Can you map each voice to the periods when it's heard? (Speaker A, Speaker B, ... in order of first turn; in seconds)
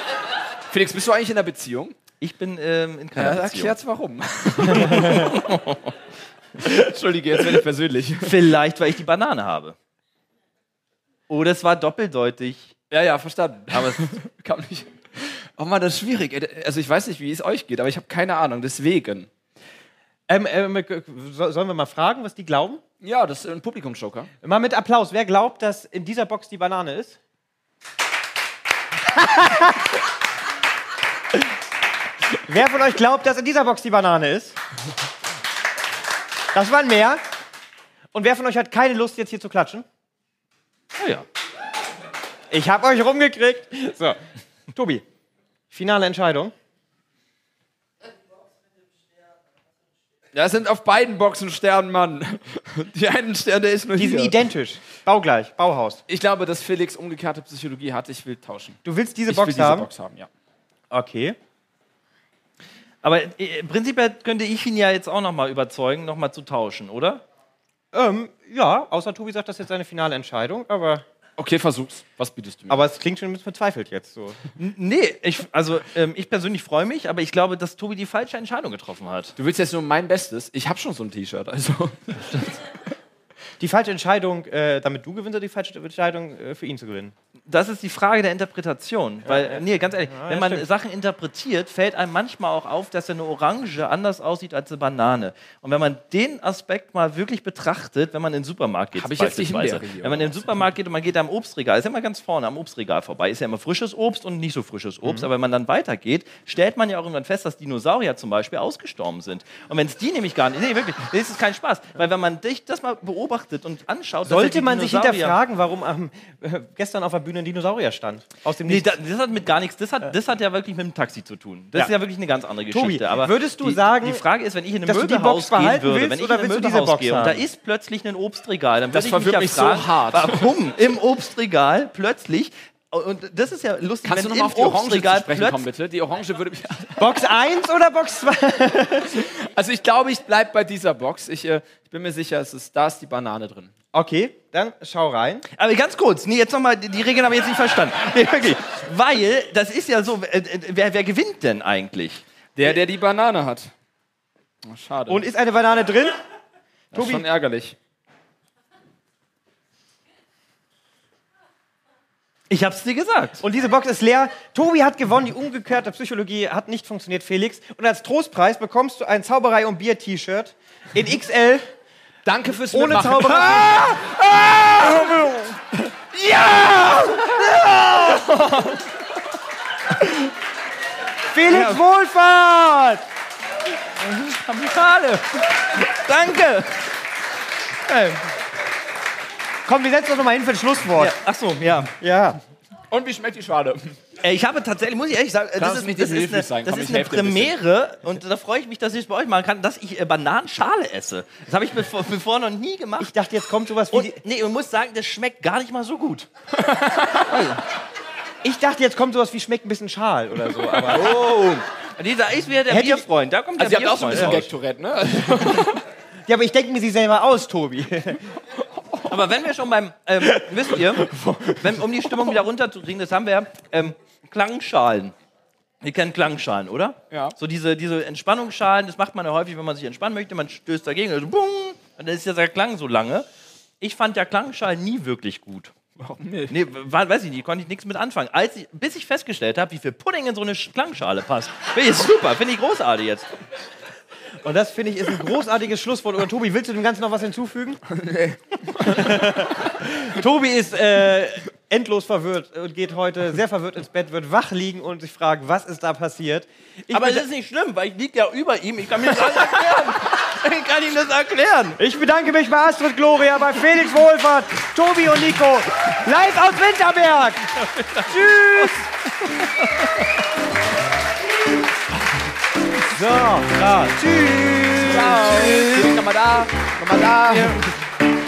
Speaker A: 0.7-1.9, 3.1-5.4, 6.6-8.5, 12.9-19.3, 23.0-24.3, 50.3-54.4, 56.1-60.3, 71.4-72.8, 79.4-82.6, 98.9-100.6, 128.9-130.5, 134.0-137.1, 139.1-143.7, 152.6-153.7, 154.6-155.2, 156.9-157.8, 172.2-175.2, 192.9-194.0, 195.6-197.5, 206.6-207.6, 210.9-211.6, 213.6-215.8, 218.7-219.2, 220.2-222.4, 227.1-227.3, 236.0-236.6, 247.9-249.6, 274.7-277.6
Speaker B: 2.2-3.8, 4.8-5.9, 8.2-9.8, 11.3-12.8, 13.7-14.2, 40.9-41.2, 63.0-67.2, 74.6-79.3, 87.5-115.3, 118.7-135.6, 145.5-152.2, 162.5-163.4, 176.1-178.8, 181.5-181.8, 184.0-186.9, 187.8-188.3, 191.0-191.9, 194.2-203.1, 203.9-206.3, 211.9-214.4, 219.1-225.1, 225.8-233.3, 233.8-235.7, 236.5-243.3, 256.9-261.8
Speaker C: 20.3-22.8, 24.4-27.2, 29.1-29.9, 32.4-34.6, 36.5-37.2, 38.1-39.9, 42.5-44.2, 44.7-45.0, 45.7-46.5, 53.9-56.0, 58.8-59.9, 60.9-61.4, 67.9-71.0, 72.7-74.4, 83.6-87.1, 89.2-90.7, 114.2-118.9, 122.7-124.2, 124.8-127.4, 137.0-139.2, 143.9-145.4, 155.1-156.2, 156.9-157.2, 163.4-171.6, 172.7-173.9, 174.8-175.6, 181.3-183.0, 189.7-191.1, 192.0-192.4, 203.0-204.2, 208.4-211.2, 212.7-213.1, 214.2-214.5, 216.2-218.2, 244.4-247.8, 248.8-257.2, 261.8-268.9, 272.8-275.9, 277.3-277.6